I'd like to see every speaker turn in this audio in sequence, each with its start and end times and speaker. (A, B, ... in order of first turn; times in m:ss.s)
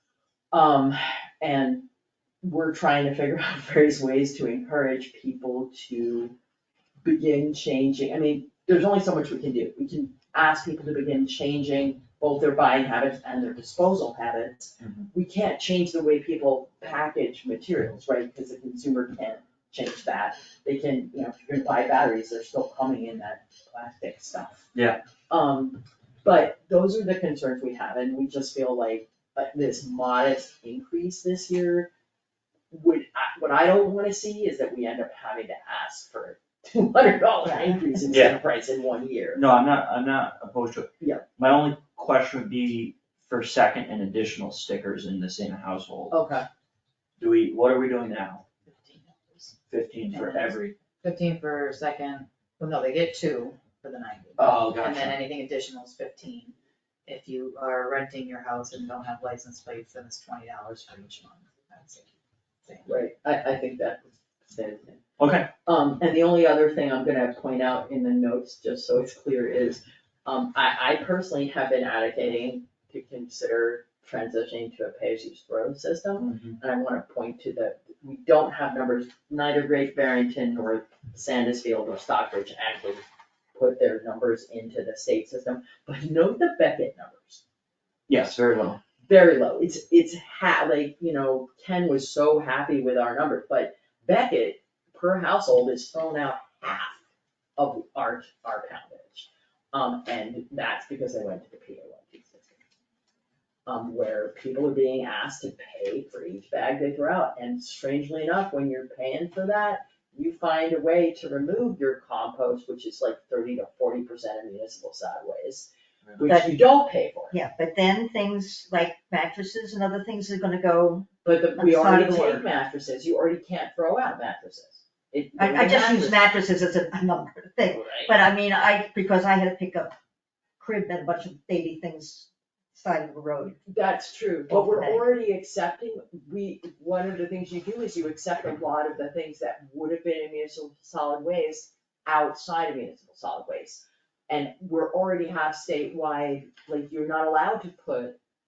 0:00.5-0:01.9 A
0:02.4-0:06.4 A
0:07.0-0:24.7 A
0:14.8-0:15.1 B
0:24.7-0:25.0 B
0:25.3-0:31.9 A
0:32.7-0:39.5 A
0:37.5-0:37.8 C
0:38.1-0:38.4 B
0:39.3-0:46.2 B
0:41.0-0:41.2 A
0:46.1-0:46.5 A
0:47.2-0:48.4 B
0:48.7-0:49.5 D
0:49.7-0:50.8 B
0:50.1-0:56.6 D
0:54.4-0:55.2 B
0:57.1-1:02.9 D
1:02.9-1:05.0 A
1:05.2-1:05.5 B
1:05.6-1:23.0 A
1:16.2-1:16.6 B
1:23.6-1:27.4 A
1:28.1-1:28.8 B
1:29.0-1:37.0 A
1:37.6-1:42.6 A
1:43.7-1:57.4 A
1:56.2-1:56.6 C
1:57.3-2:02.5 C
2:01.2-2:06.2 A
2:05.4-2:10.0 C
2:07.7-2:08.2 A
2:10.6-2:13.6 C
2:13.7-2:28.2 A
2:14.5-2:15.0 C